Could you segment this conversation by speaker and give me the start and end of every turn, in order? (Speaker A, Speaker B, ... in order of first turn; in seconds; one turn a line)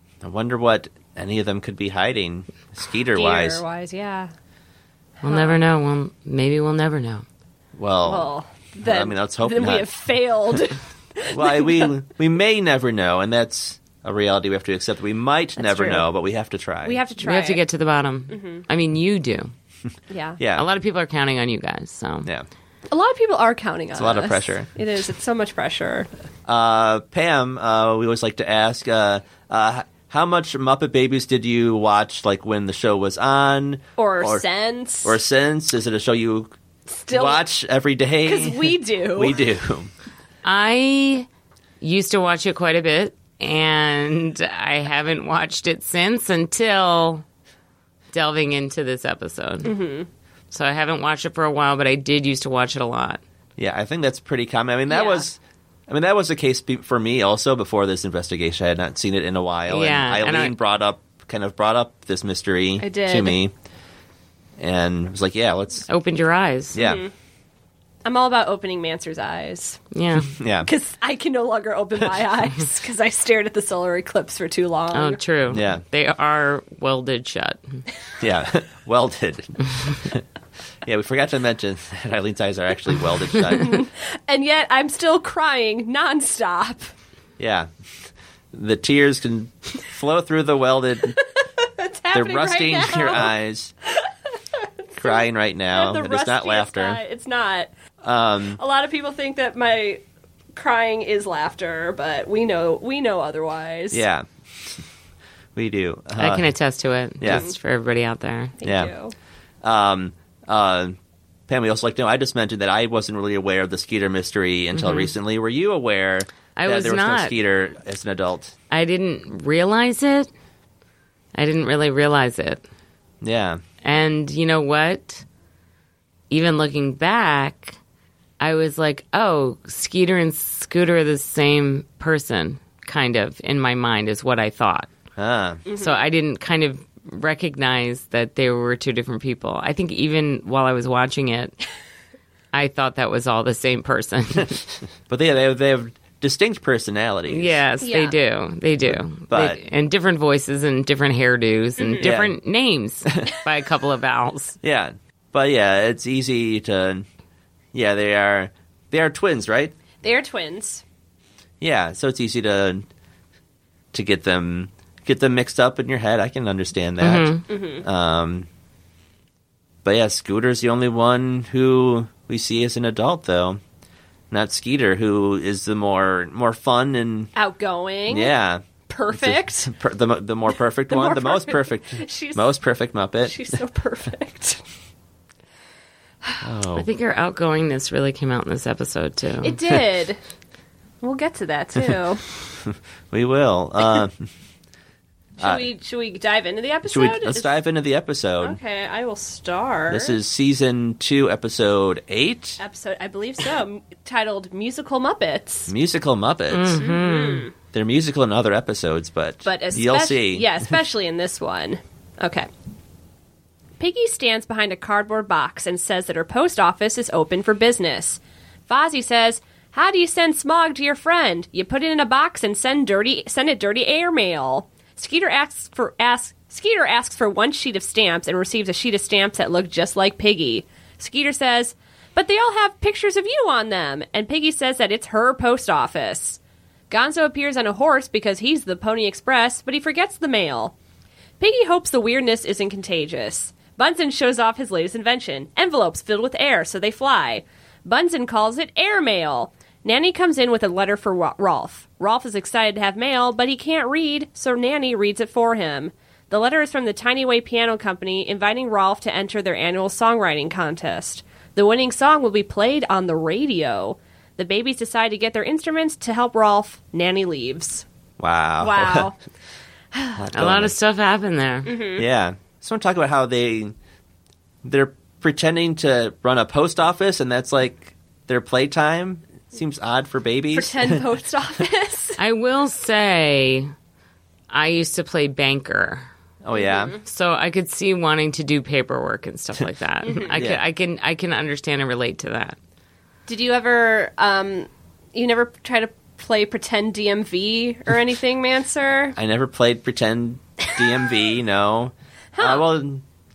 Speaker A: 0.2-3.6
Speaker B: 3.1-4.3
Speaker B: 5.2-5.6
Speaker C: 5.2-7.2
Speaker A: 7.8-8.3
Speaker B: 8.1-11.9
Speaker A: 8.8-9.9
Speaker A: 11.3-17.0
Speaker B: 15.6-16.1
Speaker B: 16.8-17.6
Speaker C: 17.2-19.5
Speaker B: 18.3-18.6
Speaker B: 20.1-20.4
Speaker A: 20.4-20.7
Speaker C: 20.6-22.3
Speaker B: 22.9-26.1
Speaker A: 23.9-24.7
Speaker A: 26.5-34.4
Speaker B: 34.0-35.2
Speaker A: 35.0-36.5
Speaker B: 36.9-37.5
Speaker A: 37.1-39.9
Speaker B: 38.2-39.4
Speaker C: 40.5-41.3
Speaker C: 41.8-47.2
Speaker C: 48.1-49.8
Speaker B: 49.6-50.1
Speaker C: 50.5-53.2
Speaker A: 53.6-63.5
Speaker B: 54.9-55.3
Speaker C: 59.7-60.5
Speaker B: 62.8-63.4
Speaker A: 64.6-65.9
Speaker C: 65.9-66.8
Speaker A: 66.7-67.0
Speaker B: 66.8-67.1
Speaker B: 68.0-69.8
Speaker C: 69.9-70.3
Speaker A: 70.3-70.7
Speaker B: 70.6-75.2
Speaker C: 74.9-77.8
Speaker A: 75.5-75.8
Speaker A: 78.2-80.2
Speaker A: 80.8-83.8
Speaker B: 83.5-86.9
Speaker A: 87.4-87.7
Speaker A: 88.5-91.2
Speaker B: 91.2-93.3
Speaker A: 92.1-93.7
Speaker B: 94.0-97.7
Speaker A: 95.0-97.0
Speaker A: 98.0-98.6
Speaker B: 98.6-100.0
Speaker B: 100.5-104.0
Speaker A: 103.9-104.8
Speaker A: 105.6-106.5
Speaker C: 106.2-108.6
Speaker A: 107.2-107.5
Speaker B: 107.2-107.5
Speaker B: 108.6-109.1
Speaker A: 108.6-108.9
Speaker A: 109.6-111.0
Speaker A: 111.5-118.5
Speaker C: 114.7-115.1
Speaker C: 116.6-117.3
Speaker C: 118.7-120.3
Speaker C: 121.4-122.6
Speaker A: 123.2-123.6
Speaker C: 123.8-125.2
Speaker C: 126.3-127.8
Speaker C: 128.4-134.9
Speaker A: 135.2-135.6
Speaker B: 135.7-136.0
Speaker C: 135.8-141.6
Speaker C: 142.5-144.6
Speaker A: 145.1-147.6
Speaker C: 147.3-154.6
Speaker B: 147.8-148.2
Speaker A: 148.9-149.6
Speaker B: 151.8-152.1
Speaker A: 152.0-152.3
Speaker A: 154.6-157.1
Speaker A: 157.7-159.7
Speaker B: 160.0-160.8
Speaker A: 161.6-162.9
Speaker A: 163.9-168.5
Speaker C: 167.0-167.4
Speaker B: 167.5-167.8
Speaker A: 169.8-173.6
Speaker A: 174.3-177.3
Speaker B: 177.3-178.3
Speaker A: 178.1-183.6
Speaker B: 178.9-179.7
Speaker B: 180.9-182.5
Speaker B: 183.2-184.6
Speaker A: 186.4-186.9
Speaker C: 186.8-189.6
Speaker B: 189.4-190.2
Speaker B: 191.0-192.3
Speaker A: 192.7-194.3
Speaker B: 195.4-197.6
Speaker A: 196.9-198.6
Speaker B: 198.4-200.2
Speaker A: 199.9-202.6
Speaker B: 202.6-205.7
Speaker A: 205.7-206.8
Speaker C: 206.5-207.5
Speaker B: 206.8-207.5
Speaker A: 207.7-210.7
Speaker B: 209.4-212.5
Speaker B: 213.8-240.8
Speaker B: 241.4-267.9
Speaker A: 268.2-269.1
Speaker B: 268.6-269.2
Speaker B: 269.9-270.2
Speaker A: 270.2-270.7
Speaker C: 270.3-271.7
Speaker B: 271.6-272.1
Speaker A: 272.0-273.8
Speaker A: 274.6-281.1
Speaker B: 280.5-282.2
Speaker C: 282.2-283.7
Speaker C: 284.5-286.1
Speaker A: 286.4-286.9
Speaker B: 286.5-287.0
Speaker C: 287.1-292.6
Speaker B: 290.0-290.3
Speaker A: 290.3-290.6
Speaker B: 293.3-299.2
Speaker A: 299.2-303.0
Speaker B: 302.3-302.7